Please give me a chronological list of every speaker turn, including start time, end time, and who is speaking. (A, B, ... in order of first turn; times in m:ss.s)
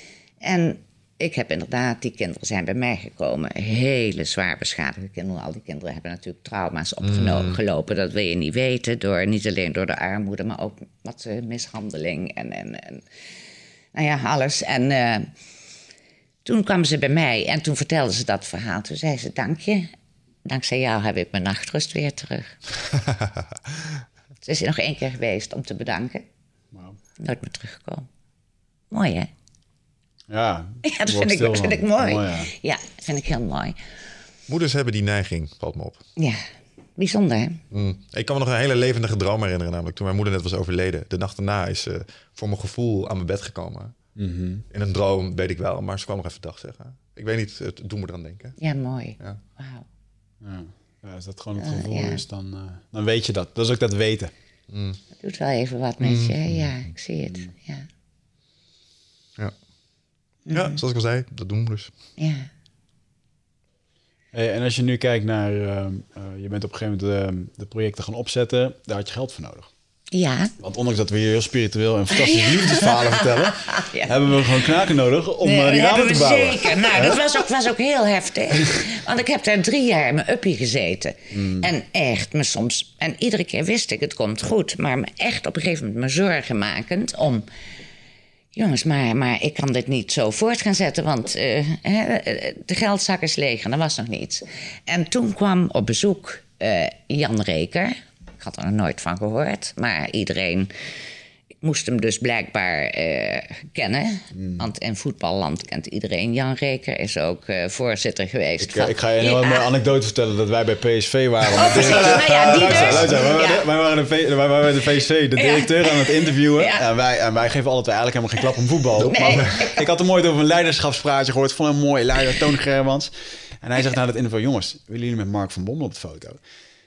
0:00.4-0:13.0 A
0:07.0-0:07.6 B
0:13.9-0:15.3 A
0:16.4-0:19.9 A
0:20.4-0:22.6 A
0:22.8-0:24.0 B
0:24.4-0:26.2 A
0:27.2-0:28.1 A
0:28.9-0:29.3 A
0:30.3-0:32.5 C
0:30.8-0:33.8 A
0:34.5-0:36.0 B
0:36.2-0:36.4 A
0:37.0-0:37.6 A
0:37.7-0:43.9 B
0:44.2-0:44.6 C
0:44.7-0:48.6 B
0:48.6-0:49.8 A
0:50.4-0:54.3 C
0:51.6-0:52.2 A
0:54.7-0:55.0 B
0:55.2-0:57.8 A
0:56.0-0:56.7 B
1:00.5-1:00.8 A
1:00.5-1:01.9 B
1:02.2-1:02.5 A
1:04.3-1:09.7 C
1:10.1-1:10.5 A
1:10.6-1:17.2 C
1:12.2-1:14.7 A
1:15.4-1:27.4 A
1:21.3-1:21.7 C
1:28.5-1:40.7 A
1:41.6-1:49.6 A
1:44.3-1:44.6 C
1:48.6-2:06.4 C
1:51.5-1:53.6 A
1:51.7-1:53.1 B
1:55.4-1:56.8 A
1:59.0-1:59.8 A
1:59.0-1:59.6 B